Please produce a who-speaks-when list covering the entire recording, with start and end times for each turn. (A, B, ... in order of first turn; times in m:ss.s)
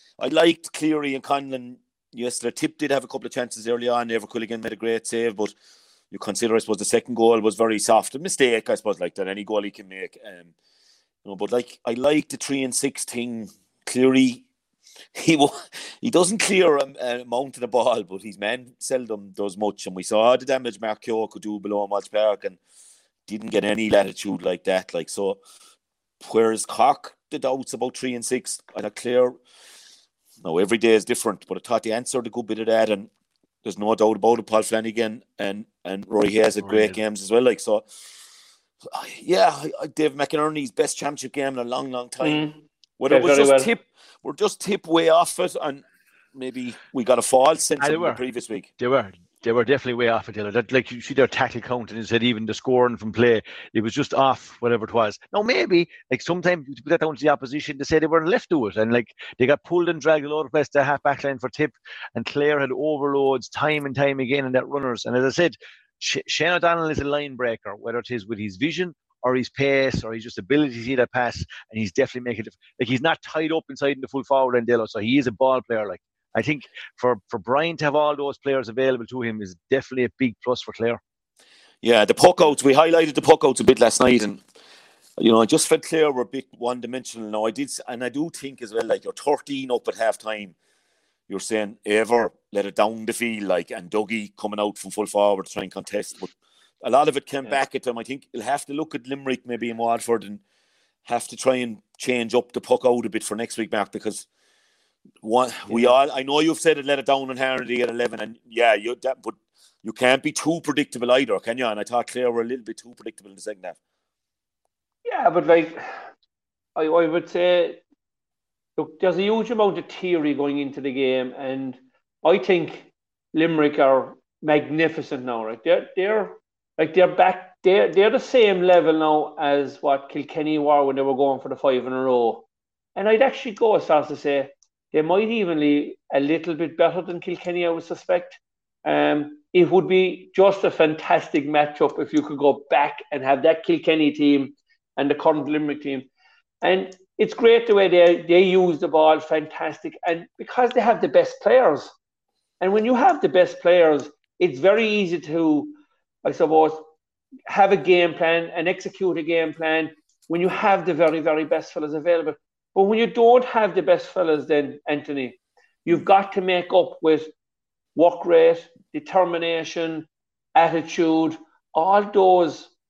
0:00.2-0:05.5 A
0:06.1-0:10.5 A
0:11.2-0:14.4 A
0:15.2-0:22.6 A
0:23.3-0:25.4 A
0:26.2-0:29.4 A
0:30.4-0:33.1 A
0:33.6-0:37.9 A
0:36.6-0:37.0 B
0:38.9-0:42.4 A
0:42.2-0:43.7 C
0:43.0-0:45.8 A
0:46.4-0:48.7 A
0:47.8-0:48.2 B
0:48.8-1:21.0 B
1:21.8-1:24.4 A
1:25.2-1:30.5 A
1:31.3-1:36.3 A
1:36.8-1:40.4 A
1:41.1-1:44.3 A
1:45.2-1:53.8 A
1:45.7-1:46.0 C
1:55.1-1:55.9 C
1:56.8-1:57.8 C
1:58.8-2:12.4 C
2:13.0-2:26.1 C
2:26.6-2:31.9 C
2:32.6-2:36.9 C
2:37.5-2:47.3 C
2:48.0-2:52.7 C